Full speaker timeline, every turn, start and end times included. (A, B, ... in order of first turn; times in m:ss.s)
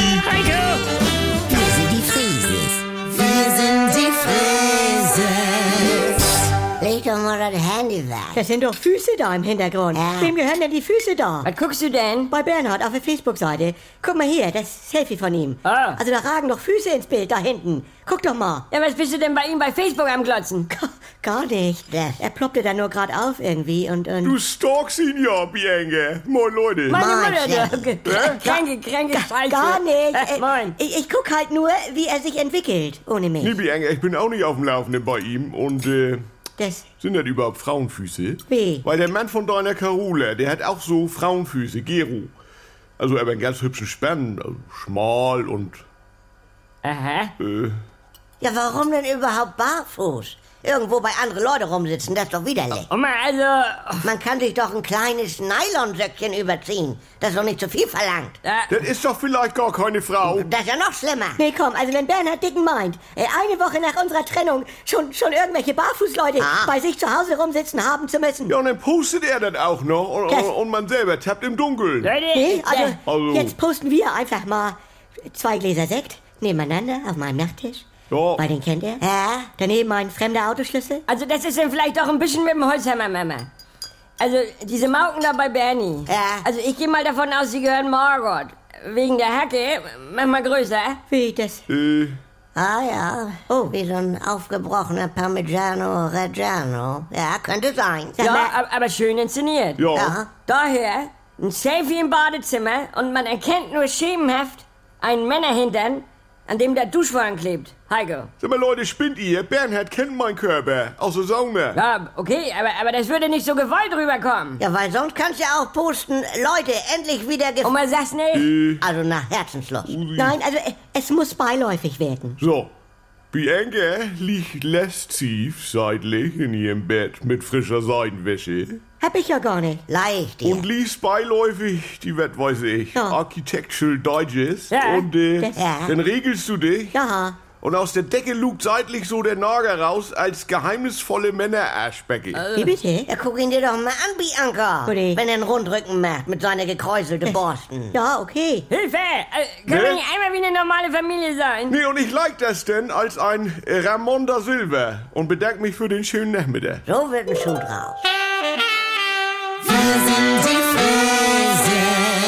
0:00.2-0:00.8 A
0:01.5-0:06.1 B
0:06.8-0:08.4 B
0:08.3-0:11.5 C
0:09.9-0:10.3 B
0:11.4-0:12.3 A
0:12.3-0:18.7 C
0:15.6-0:16.0 A
0:18.7-0:20.7 A
0:20.7-0:24.4 C
0:21.9-0:22.2 B
0:24.2-0:27.0 D
0:26.9-0:30.8 A
0:26.9-0:27.9 B
0:28.2-0:33.6 C
0:33.4-0:36.2 D
0:36.6-0:36.9 C
0:37.0-0:42.3 D
0:38.5-0:38.9 C
0:43.0-0:45.8 D
0:46.8-0:47.3 A
0:47.4-0:47.8 D
0:48.4-0:52.9 B
0:52.9-0:54.1 A
0:54.0-0:58.4 B
0:58.4-0:58.8 A
0:58.7-1:00.5 D
1:00.2-1:01.4 B
1:01.4-1:08.6 C
1:06.4-1:06.7 B
1:08.5-1:12.1 D
1:10.3-1:10.6 C
1:12.0-1:13.0 A
1:12.3-1:14.8 C
1:13.0-1:13.6 D
1:15.3-1:17.9 C
1:18.1-1:18.4 D
1:18.4-1:21.0 C
1:19.0-1:19.5 B
1:21.1-1:23.5 A
1:24.2-1:31.0 A
1:26.1-1:26.5 B
1:31.1-1:31.6 C
1:31.7-1:32.2 D
1:32.6-1:38.2 B
1:33.5-1:33.8 C
1:38.2-1:38.5 C
1:38.2-1:39.8 A
1:39.8-1:40.2 D
1:40.0-1:40.3 B
1:40.5-1:48.3 A
1:48.4-1:51.8 D
1:51.8-1:54.6 A
1:54.6-1:57.7 B
1:57.6-1:58.5 A
1:58.3-1:58.9 D
1:58.8-2:00.0 B
1:59.9-2:00.4 D
2:00.2-2:02.4 C
2:02.4-2:02.7 D
2:03.3-2:08.8 D
2:09.0-2:09.8 C
2:09.9-2:10.7 B
2:10.5-2:17.0 D
2:12.9-2:13.2 C
2:14.7-2:15.1 A
2:15.4-2:15.8 C
2:15.6-2:15.9 B
2:16.9-2:17.5 C
2:17.5-2:22.4 D
2:22.4-2:22.7 A
2:22.6-2:23.1 C
2:23.1-2:27.9 B
2:24.8-2:25.2 C
2:27.9-2:28.7 C
2:28.7-2:31.8 A
2:29.7-2:30.0 D
2:31.7-2:36.9 D
2:36.9-2:38.0 B